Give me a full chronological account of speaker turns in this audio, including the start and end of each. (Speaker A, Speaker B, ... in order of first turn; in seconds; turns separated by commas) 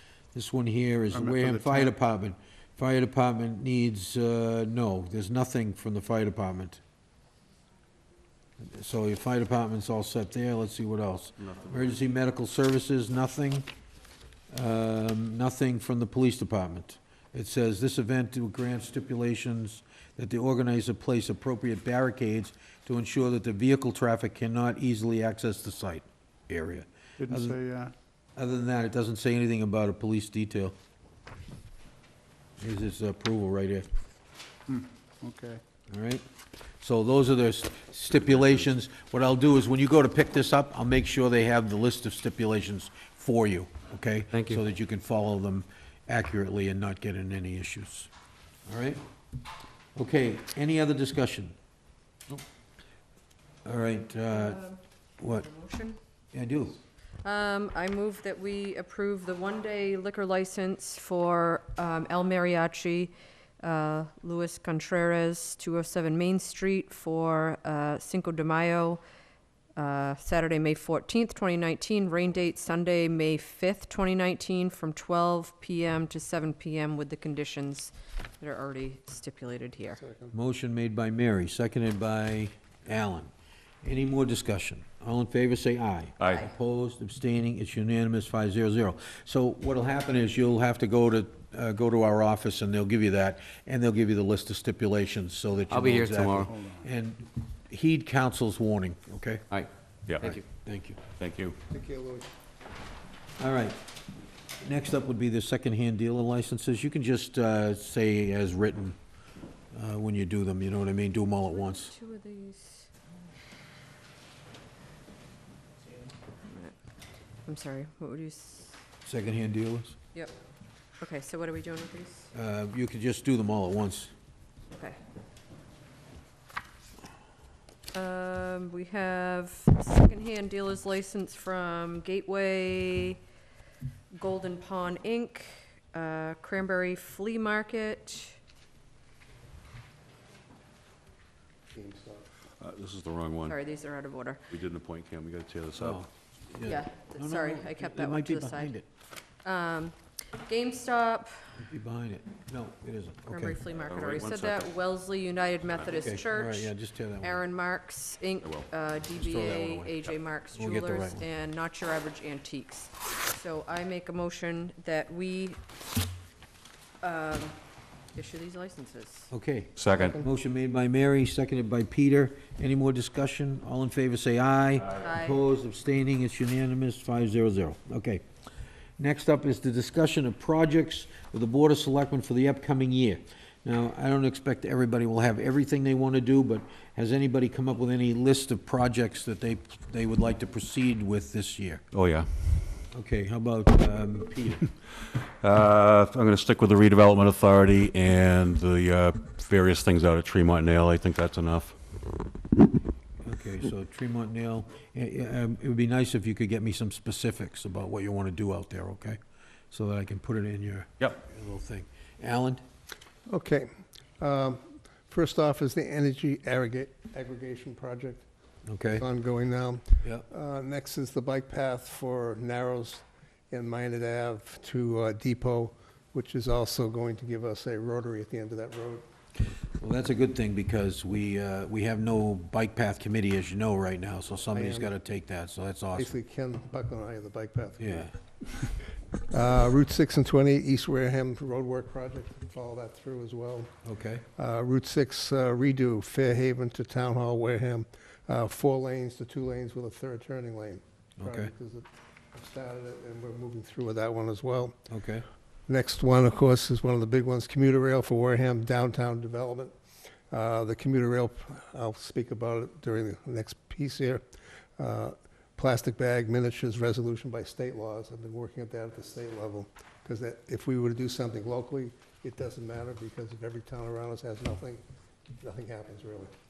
Speaker A: 0.3-6.8, Speaker B: 1.1-1.9, Speaker A: 8.6-13.7, Speaker A: 14.5-27.6, Speaker B: 27.2-27.9, Speaker A: 28.4-30.8, Speaker A: 32.6-33.9, Speaker B: 34.7-35.6, Speaker A: 35.9-36.2, Speaker A: 36.8-48.1, Speaker C: 44.3-44.6, Speaker A: 48.7-49.0, Speaker A: 49.9-51.5, Speaker A: 53.6-54.6, Speaker D: 54.3-56.0, Speaker A: 55.2-55.5, Speaker A: 56.3-56.8, Speaker D: 57.2-69.0, Speaker D: 69.8-80.0, Speaker E: 80.0-80.3, Speaker A: 80.3-83.3, Speaker A: 83.8-99.5, Speaker C: 95.7-96.5, Speaker B: 96.4-96.8, Speaker C: 99.5-100.4, Speaker F: 100.1-100.3, Speaker A: 100.4-101.0, Speaker F: 101.2-101.5, Speaker E: 101.7-102.3, Speaker A: 103.4-103.8, Speaker A: 104.6-109.0, Speaker A: 109.7-111.9, Speaker D: 111.5-112.9, Speaker D: 116.5-116.7, Speaker D: 117.5-118.8, Speaker A: 119.0-120.0, Speaker D: 121.0-122.3, Speaker A: 122.3-124.1, Speaker D: 124.7-125.0, Speaker D: 127.9-133.2, Speaker D: 134.1-138.4, Speaker E: 141.7-142.3, Speaker F: 142.6-143.6, Speaker D: 143.5-144.4, Speaker F: 144.5-146.0, Speaker A: 145.8-148.9, Speaker D: 146.6-148.7, Speaker D: 149.4-151.3, Speaker A: 151.6-153.6, Speaker D: 153.3-165.6, Speaker F: 153.9-154.7, Speaker A: 155.9-157.4, Speaker A: 159.1-160.0, Speaker A: 160.5-161.3, Speaker D: 167.0-167.6, Speaker D: 168.1-169.3, Speaker A: 169.3-178.2, Speaker F: 169.8-170.1, Speaker E: 169.9-170.3, Speaker D: 175.0-175.4, Speaker A: 179.0-191.8, Speaker F: 192.0-192.3, Speaker A: 192.9-194.7, Speaker F: 195.4-201.8, Speaker A: 203.2-209.2, Speaker A: 209.7-212.6, Speaker E: 213.3-218.2, Speaker A: 218.7-219.0, Speaker E: 218.9-229.1, Speaker A: 229.8-236.1, Speaker E: 234.5-234.9, Speaker E: 235.9-238.0, Speaker A: 237.8-238.1, Speaker E: 239.3-243.7, Speaker A: 243.8-244.2, Speaker E: 244.3-254.8, Speaker A: 251.2-251.5, Speaker A: 254.9-255.2, Speaker E: 255.7-259.8, Speaker E: 260.3-264.2, Speaker E: 264.8-274.8, Speaker E: 275.4-276.3